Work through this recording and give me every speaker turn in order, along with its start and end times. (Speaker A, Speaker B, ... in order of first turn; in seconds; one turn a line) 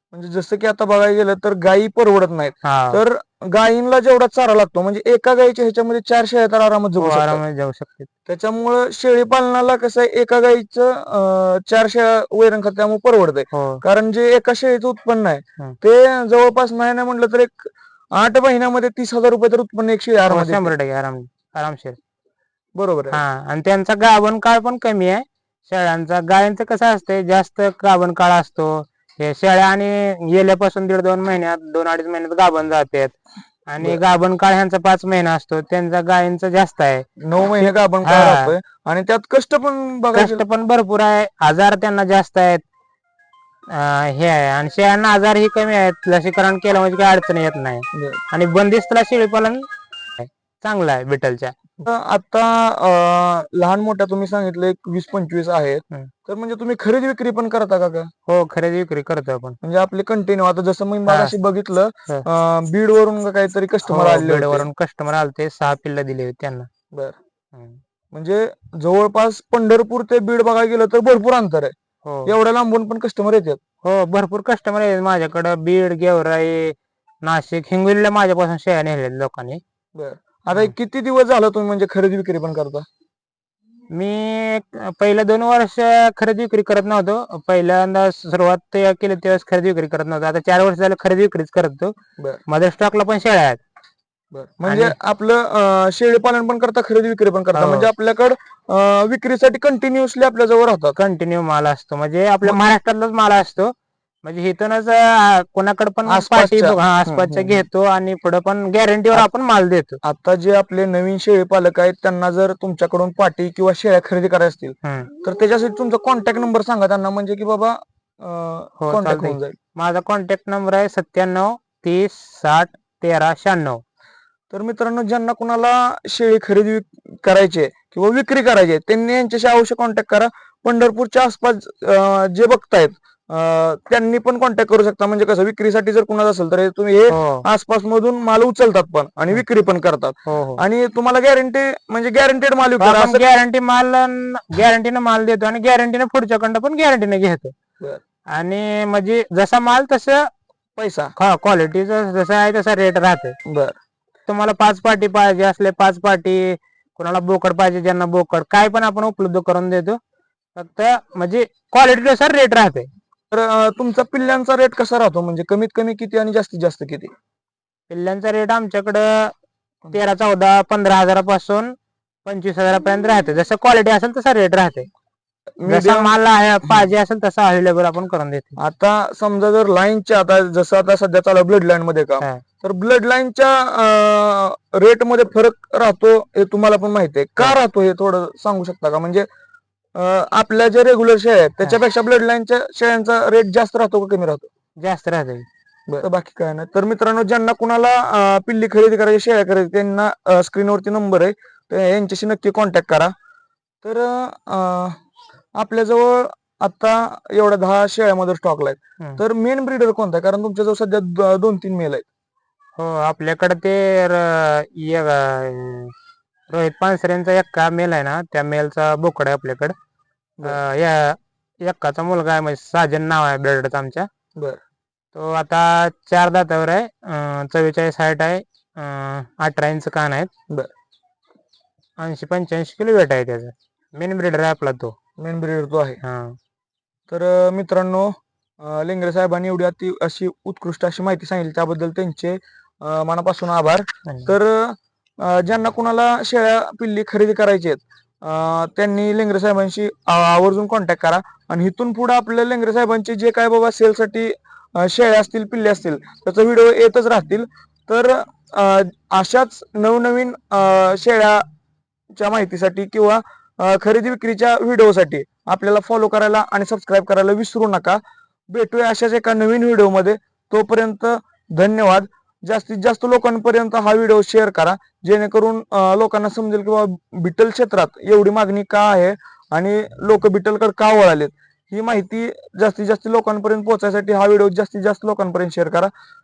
Speaker A: 0.1-7.4
Speaker B: 2.6-3.0
Speaker B: 7.0-8.1
Speaker A: 8.3-20.7
Speaker B: 13.5-13.8
Speaker B: 20.3-22.0
Speaker A: 22.8-23.2
Speaker B: 23.1-33.1
Speaker B: 33.7-37.0
Speaker A: 37.2-40.4
Speaker B: 37.6-38.5
Speaker B: 40.1-42.6
Speaker B: 43.7-49.6
Speaker A: 47.9-48.2
Speaker B: 50.2-51.5
Speaker A: 51.8-58.1
Speaker B: 58.3-59.6
Speaker A: 59.6-64.7
Speaker B: 61.1-61.3
Speaker B: 63.9-66.7
Speaker B: 67.5-67.8
Speaker A: 68.1-71.7
Speaker B: 72.0-72.3
Speaker A: 72.2-73.6
Speaker B: 73.8-79.6
Speaker A: 80.0-82.8
Speaker B: 83.9-91.9
Speaker B: 92.5-93.6
Speaker A: 94.3-101.0
Speaker B: 94.7-95.0
Speaker B: 97.5-97.9
Speaker B: 101.0-110.0
Speaker A: 106.1-107.6
Speaker A: 110.0-119.5
Speaker B: 114.8-115.1
Speaker B: 118.8-123.8
Speaker A: 124.5-143.2
Speaker B: 137.1-137.4
Speaker B: 140.3-140.6
Speaker B: 142.8-147.5
Speaker B: 148.3-150.3
Speaker A: 150.8-151.1
Speaker B: 151.2-153.3
Speaker A: 153.4-153.8
Speaker B: 154.3-160.0
Speaker B: 160.6-162.9
Speaker A: 163.3-167.1
Speaker B: 167.9-169.3
Speaker B: 169.9-171.7
Speaker B: 172.2-174.9
Speaker A: 175.6-176.1
Speaker B: 175.7-178.6
Speaker A: 178.6-189.2
Speaker A: 189.9-194.5
Speaker B: 194.8-195.4
Speaker A: 195.9-203.1
Speaker A: 203.8-205.0
Speaker A: 205.6-212.1
Speaker B: 212.8-215.9
Speaker B: 216.5-219.7
Speaker B: 220.4-224.1
Speaker B: 225.1-230.3
Speaker B: 232.0-234.9
Speaker A: 235.2-236.0
Speaker B: 236.0-236.4
Speaker A: 237.1-261.4
Speaker B: 244.1-244.3
Speaker A: 262.1-285.9